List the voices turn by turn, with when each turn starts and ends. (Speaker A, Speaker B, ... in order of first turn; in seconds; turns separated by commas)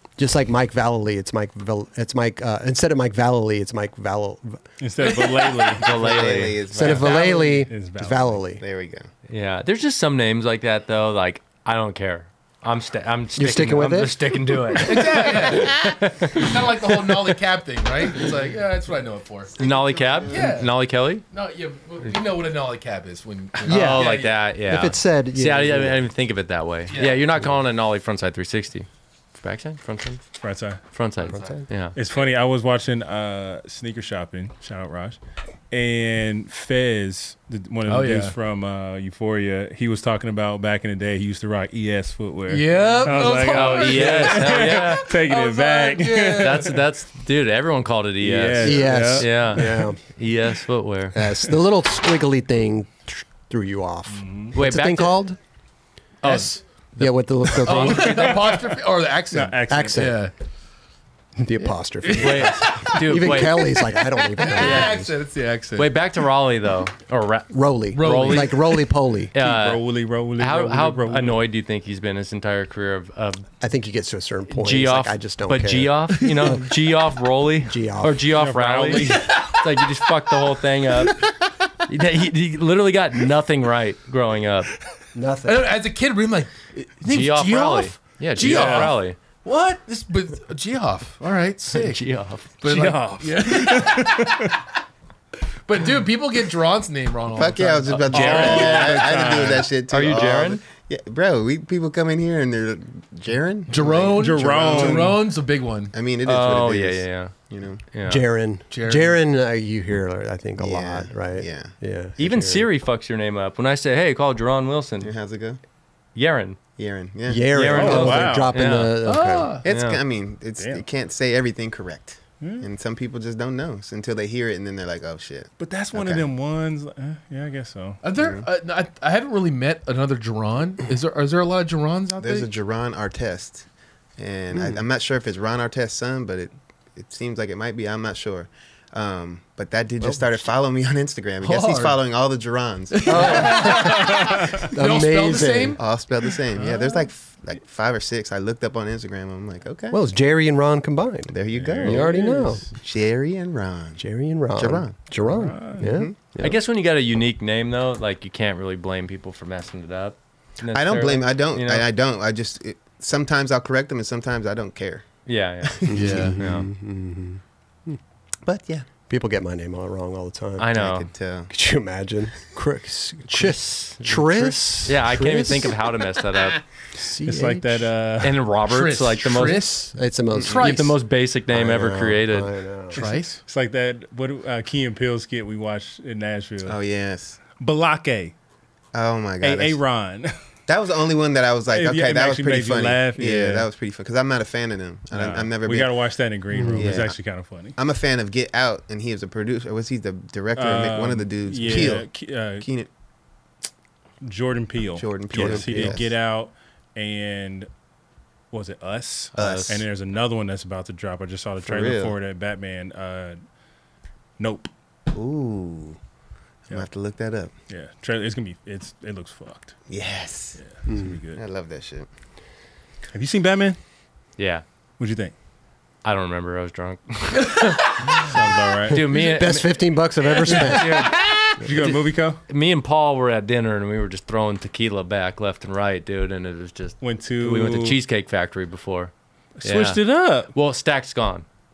Speaker A: 0.2-4.6, Speaker B: 4.8-6.0, Speaker C: 5.6-7.0, Speaker D: 5.8-7.1, Speaker A: 6.7-8.6, Speaker E: 6.9-7.6, Speaker B: 6.9-8.4, Speaker D: 8.6-9.1, Speaker C: 9.3-17.1, Speaker A: 13.3-14.8, Speaker E: 14.8-19.5, Speaker D: 19.5-20.5, Speaker C: 19.6-21.2, Speaker E: 20.3-20.7, Speaker E: 21.3-24.4, Speaker C: 23.6-30.2, Speaker A: 23.7-26.1, Speaker E: 26.9-27.3, Speaker B: 30.4-30.8, Speaker C: 30.9-31.9, Speaker A: 31.3-31.6, Speaker B: 31.9-35.2, Speaker B: 35.7-46.8, Speaker E: 37.9-38.3, Speaker E: 42.5-46.7, Speaker C: 43.2-45.1, Speaker C: 46.3-51.2, Speaker B: 48.2-49.8, Speaker A: 48.6-50.0, Speaker A: 51.1-55.4, Speaker B: 54.1-54.5, Speaker C: 54.5-55.2, Speaker E: 56.2-60.3, Speaker A: 57.0-58.5, Speaker B: 57.7-58.6, Speaker B: 59.3-60.1, Speaker A: 59.7-60.3, Speaker A: 61.4-65.1, Speaker E: 61.6-63.6, Speaker C: 62.2-63.6, Speaker E: 64.4-65.9, Speaker C: 65.8-68.6, Speaker A: 67.5-69.3, Speaker E: 67.9-68.8, Speaker C: 69.3-69.8, Speaker B: 69.3-71.4, Speaker C: 70.4-73.5, Speaker A: 73.6-76.7, Speaker C: 74.5-81.2, Speaker A: 77.7-78.3, Speaker B: 78.3-79.3, Speaker E: 79.0-79.6, Speaker C: 81.8-84.7, Speaker A: 85.1-85.7, Speaker E: 85.4-94.5, Speaker C: 87.0-89.2, Speaker B: 88.4-89.0, Speaker C: 91.7-92.6, Speaker B: 92.6-94.5, Speaker E: 95.7-98.6, Speaker D: 97.3-105.2, Speaker C: 97.9-99.1, Speaker B: 98.1-99.7, Speaker C: 99.9-100.6, Speaker E: 103.7-105.9, Speaker B: 104.1-105.2, Speaker D: 105.9-107.8, Speaker C: 106.2-107.3, Speaker C: 107.9-108.2, Speaker A: 108.0-112.7, Speaker E: 108.7-109.2, Speaker D: 110.6-111.7, Speaker C: 112.2-115.1, Speaker D: 115.0-115.6, Speaker C: 116.1-116.6, Speaker D: 116.8-118.1, Speaker A: 117.3-119.5, Speaker C: 117.5-119.0, Speaker B: 117.7-118.6, Speaker E: 119.0-119.6, Speaker D: 119.6-126.3, Speaker C: 119.7-120.0, Speaker B: 120.6-120.8, Speaker B: 122.4-122.7, Speaker B: 125.6-128.0, Speaker E: 128.0-132.5, Speaker D: 128.1-128.4, Speaker D: 132.2-133.7, Speaker D: 134.2-143.9, Speaker A: 140.0-140.3, Speaker E: 141.4-142.0, Speaker E: 142.9-147.1, Speaker A: 143.1-145.8, Speaker B: 144.1-144.6, Speaker D: 145.8-150.0, Speaker A: 149.9-152.6, Speaker D: 151.3-152.1, Speaker B: 151.5-152.7, Speaker D: 152.8-154.0, Speaker A: 154.0-156.6, Speaker D: 154.6-155.0, Speaker B: 155.3-155.9, Speaker D: 155.8-156.1, Speaker C: 156.4-161.9, Speaker D: 160.7-166.3, Speaker C: 165.2-166.7, Speaker A: 165.9-168.0, Speaker E: 165.9-166.4, Speaker D: 168.4-168.8, Speaker A: 169.1-170.7, Speaker C: 170.6-171.1, Speaker D: 170.7-171.5, Speaker A: 171.5-175.8, Speaker C: 173.3-176.6, Speaker A: 176.9-177.9, Speaker B: 177.2-178.4, Speaker C: 178.2-179.8, Speaker E: 178.7-180.9, Speaker A: 179.9-180.8, Speaker C: 180.5-182.5, Speaker A: 181.5-183.0, Speaker E: 182.9-183.4, Speaker B: 183.4-186.8, Speaker D: 186.6-187.4, Speaker B: 187.5-188.3, Speaker D: 188.9-189.8, Speaker B: 189.4-190.3, Speaker D: 190.7-196.1, Speaker B: 191.7-193.7, Speaker B: 195.1-197.7, Speaker A: 196.5-196.9, Speaker D: 196.7-197.2, Speaker D: 197.8-202.9, Speaker B: 200.6-202.7, Speaker B: 204.2-207.7, Speaker D: 204.9-206.1, Speaker A: 205.3-206.0, Speaker B: 208.5-213.4, Speaker C: 209.3-209.8, Speaker D: 209.3-209.8, Speaker D: 211.6-212.1, Speaker B: 214.4-214.7, Speaker D: 215.1-216.0, Speaker D: 216.7-217.5, Speaker B: 217.7-219.8, Speaker D: 219.9-220.6, Speaker B: 220.6-221.4, Speaker A: 220.9-221.2, Speaker D: 221.3-222.1, Speaker B: 223.1-223.8, Speaker C: 224.4-224.6, Speaker B: 225.0-225.3, Speaker C: 226.0-228.3, Speaker E: 227.4-227.8, Speaker B: 228.2-229.1, Speaker C: 228.8-239.1, Speaker A: 229.1-231.1, Speaker E: 230.7-231.1, Speaker B: 231.6-232.4, Speaker B: 237.0-238.0, Speaker B: 239.6-240.5, Speaker C: 239.6-241.4